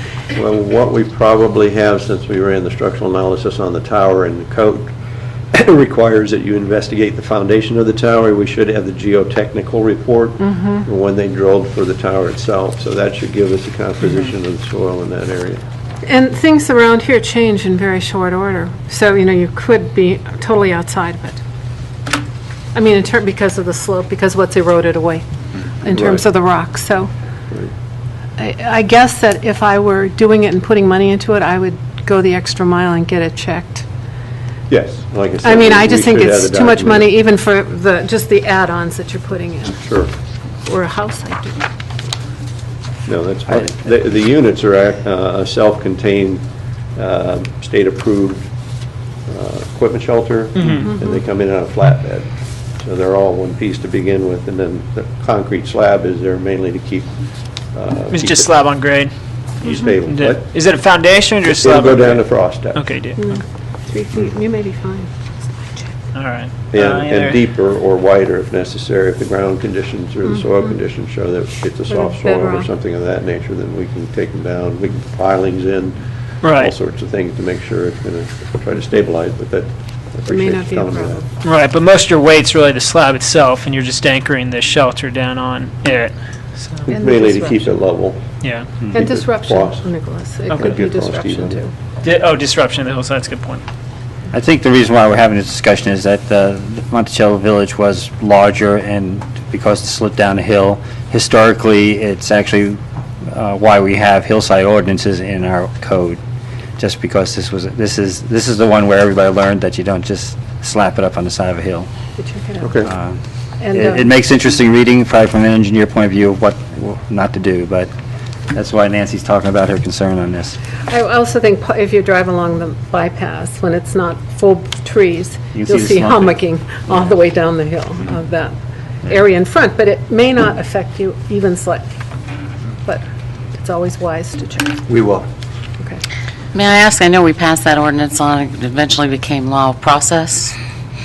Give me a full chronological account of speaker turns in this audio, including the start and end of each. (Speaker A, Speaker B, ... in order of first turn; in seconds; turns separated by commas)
Speaker A: 0.3-4.9, Speaker A: 5.5-15.6, Speaker B: 10.4-10.8, Speaker B: 16.0-21.4, Speaker B: 22.7-25.3, Speaker B: 25.8-27.1, Speaker A: 25.9-26.2, Speaker B: 28.4-33.9, Speaker A: 34.7-37.1, Speaker B: 35.4-40.0, Speaker A: 39.8-40.1, Speaker B: 40.6-41.6, Speaker A: 43.1-46.4, Speaker A: 47.0-48.5, Speaker A: 49.3-57.1, Speaker C: 50.6-50.9, Speaker B: 50.6-51.1, Speaker A: 57.7-58.5, Speaker C: 58.1-59.1, Speaker B: 59.6-60.0, Speaker A: 59.6-60.5, Speaker C: 60.1-63.4, Speaker A: 61.4-62.8, Speaker B: 63.2-65.9, Speaker C: 66.1-67.4, Speaker A: 66.7-81.2, Speaker B: 71.9-72.7, Speaker C: 76.4-76.8, Speaker B: 80.3-81.3, Speaker C: 81.4-86.9, Speaker B: 86.9-87.8, Speaker A: 86.9-88.2, Speaker C: 88.4-88.7, Speaker B: 88.9-91.7, Speaker A: 88.9-89.9, Speaker A: 90.5-91.6, Speaker C: 92.0-93.6, Speaker D: 94.3-106.2, Speaker D: 106.8-111.9, Speaker B: 112.2-112.8, Speaker A: 112.6-112.9, Speaker D: 112.9-113.2, Speaker B: 113.6-114.1, Speaker D: 113.7-117.9, Speaker D: 118.5-120.6, Speaker B: 120.9-128.5, Speaker D: 125.5-126.4, Speaker B: 129.1-131.9, Speaker B: 132.8-134.8, Speaker E: 136.5-140.6